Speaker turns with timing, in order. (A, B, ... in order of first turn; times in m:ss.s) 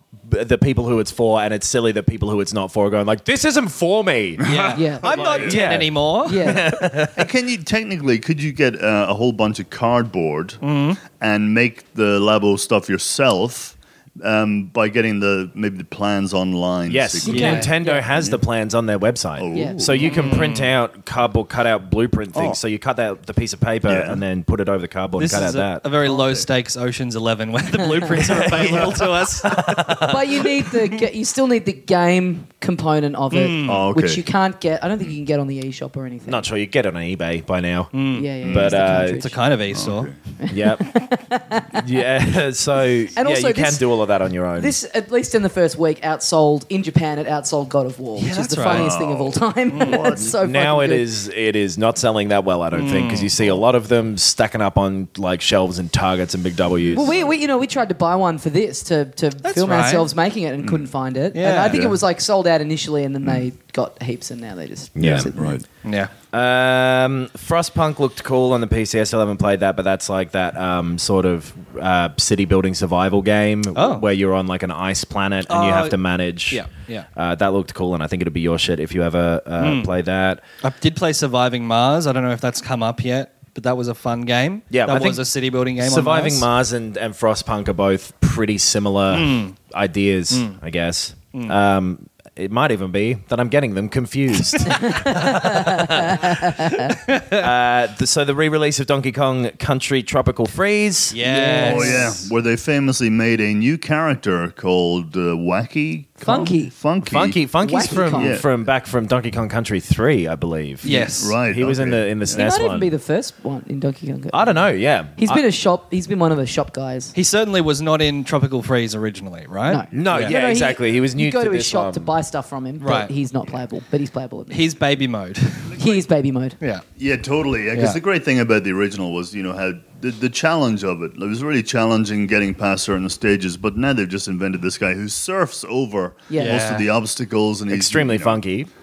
0:00.3-0:07.3 A
0:04.4-0:06.6 B
0:04.7-0:05.3 C
0:05.1-0:05.6 D
0:06.2-0:06.7 C
0:07.2-0:17.6 D
0:10.6-0:11.0 B
0:16.9-0:25.8 A
0:17.2-0:18.1 C
0:17.3-0:17.7 B
0:19.4-0:20.3 D
0:19.5-0:20.3 C
0:20.0-0:20.7 B
0:23.9-0:24.2 D
0:25.2-0:30.0 B
0:26.0-0:26.4 D
0:28.2-0:30.7 A
0:30.0-0:36.4 C
0:33.3-0:33.8 B
0:33.6-0:34.2 D
0:36.2-0:39.2 A
0:37.9-0:38.3 B
0:38.1-0:39.4 C
0:38.4-0:38.7 D
0:38.9-0:40.1 B
0:39.7-0:40.2 D
0:40.4-0:41.8 C
0:40.5-0:41.0 A
0:41.7-0:44.7 A
0:43.2-0:43.9 C
0:44.6-0:51.1 C
0:48.2-0:48.9 B
0:48.6-0:50.3 D
0:49.7-0:50.1 B
0:50.2-0:57.2 A
0:52.7-0:53.3 B
0:53.4-0:53.6 D
0:56.9-1:05.6 C
0:56.9-0:57.2 D
0:59.4-1:00.1 B
1:01.3-1:01.9 B
1:01.7-1:02.0 D
1:05.0-1:05.3 A
1:05.3-1:05.6 D
1:05.8-1:06.1 B
1:06.3-1:20.4 A
1:13.7-1:14.0 B
1:15.5-1:16.0 B
1:16.5-1:17.1 B
1:19.6-1:19.9 B
1:20.6-1:26.4 B
1:24.7-1:25.2 A
1:25.8-1:41.2 A
1:29.1-1:29.6 B
1:30.3-1:30.6 B
1:34.7-1:36.9 C
1:37.1-1:37.4 B
1:41.1-1:42.1 B
1:41.2-1:42.3 C
1:41.6-1:48.5 D
1:46.2-1:46.7 C
1:47.0-1:52.9 A
1:47.6-1:48.4 C
1:50.8-1:51.1 C
1:50.8-1:51.4 B
1:50.9-1:52.5 D
1:52.3-1:54.5 C
1:54.3-1:55.4 A
1:55.2-1:57.1 C
1:57.1-2:00.3 B
1:59.7-2:04.6 C
1:59.9-2:02.1 A
2:02.8-2:03.1 B
2:04.5-2:05.8 B
2:05.8-2:06.6 C
2:07.0-2:18.4 D
2:07.7-2:08.0 B
2:16.3-2:16.6 C
2:16.4-2:16.9 B
2:17.7-2:18.7 A